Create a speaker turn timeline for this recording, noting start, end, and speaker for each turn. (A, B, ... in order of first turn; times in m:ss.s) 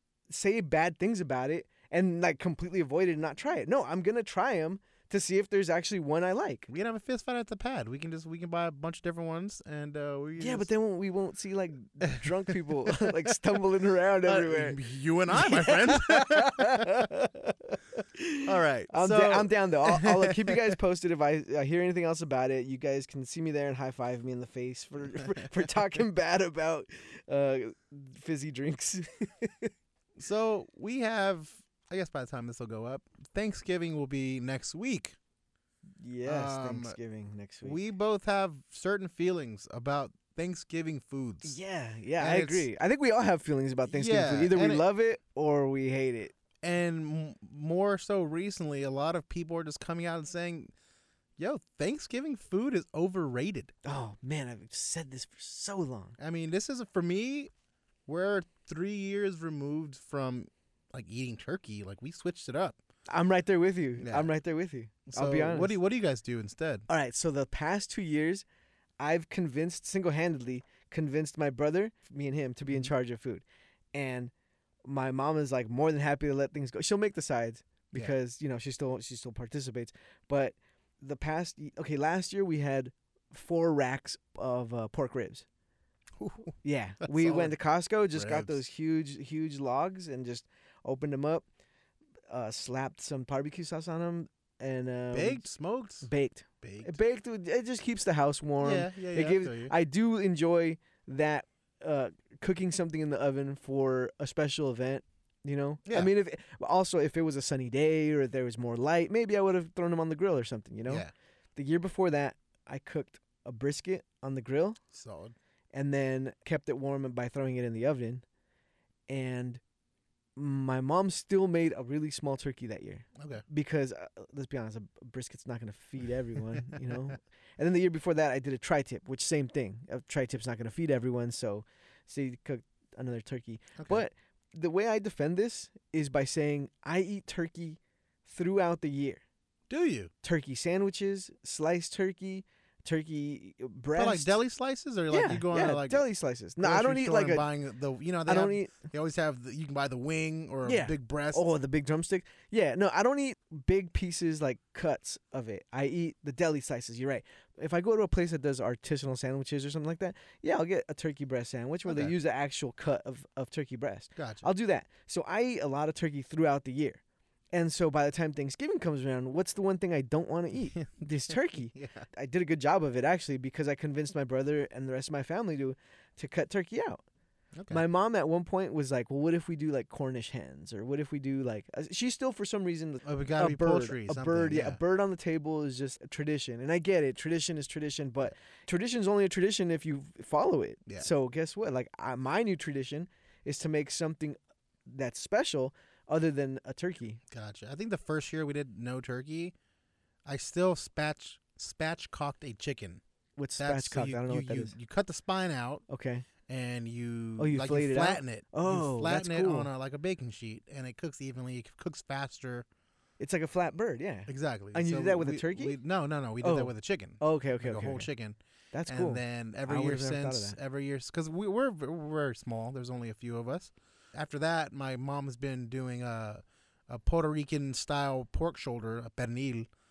0:00.3-0:06.7 A
0:06.7-0:10.7 B
0:10.4-0:29.7 A
0:12.0-0:13.4 B
0:14.2-0:17.0 B
0:18.4-0:20.7 B
0:30.2-0:35.2 B
0:36.0-0:37.8 A
0:36.2-0:37.0 B
0:37.6-0:41.6 B
0:41.4-0:46.3 A
0:42.2-0:42.7 B
0:43.9-0:44.8 B
0:46.6-0:50.7 B
0:51.4-0:53.7 B
0:53.8-0:56.2 A
0:56.2-0:57.5 B
0:58.1-1:02.8 B
1:03.1-1:05.8 A
1:04.0-1:04.3 B
1:05.1-1:06.9 B
1:06.9-1:08.4 A
1:09.0-1:14.3 A
1:14.8-1:25.4 A
1:26.2-1:27.5 B
1:26.6-1:31.4 A
1:28.1-1:28.6 B
1:32.3-1:35.4 A
1:35.1-1:36.1 B
1:36.0-1:51.0 A
1:36.6-1:36.9 B
1:38.6-1:39.7 B
1:51.6-1:54.8 A
1:54.9-1:55.3 B
1:55.7-1:58.2 A
1:59.1-1:59.6 A
2:00.4-2:19.2 A
2:03.2-2:03.4 B
2:19.7-2:20.1 B
2:20.2-2:24.4 A
2:23.9-2:26.0 B
2:25.1-2:27.5 A
2:26.6-2:31.4 B
2:28.3-2:28.8 A
2:30.6-2:47.0 A
2:41.9-2:42.1 B
2:44.2-2:44.4 B
2:47.5-2:57.0 A
2:50.7-2:52.1 B
2:57.6-2:57.8 B
2:57.7-3:17.2 A
3:03.0-3:04.8 B
3:17.3-3:19.5 B
3:20.3-3:23.0 B
3:23.4-3:24.7 A
3:23.6-3:25.8 B
3:25.9-3:26.3 A
3:26.5-3:32.6 B
3:27.4-3:29.7 A
3:33.2-3:35.8 A
3:34.3-3:49.7 B
3:36.4-3:38.1 A
3:38.7-3:40.6 A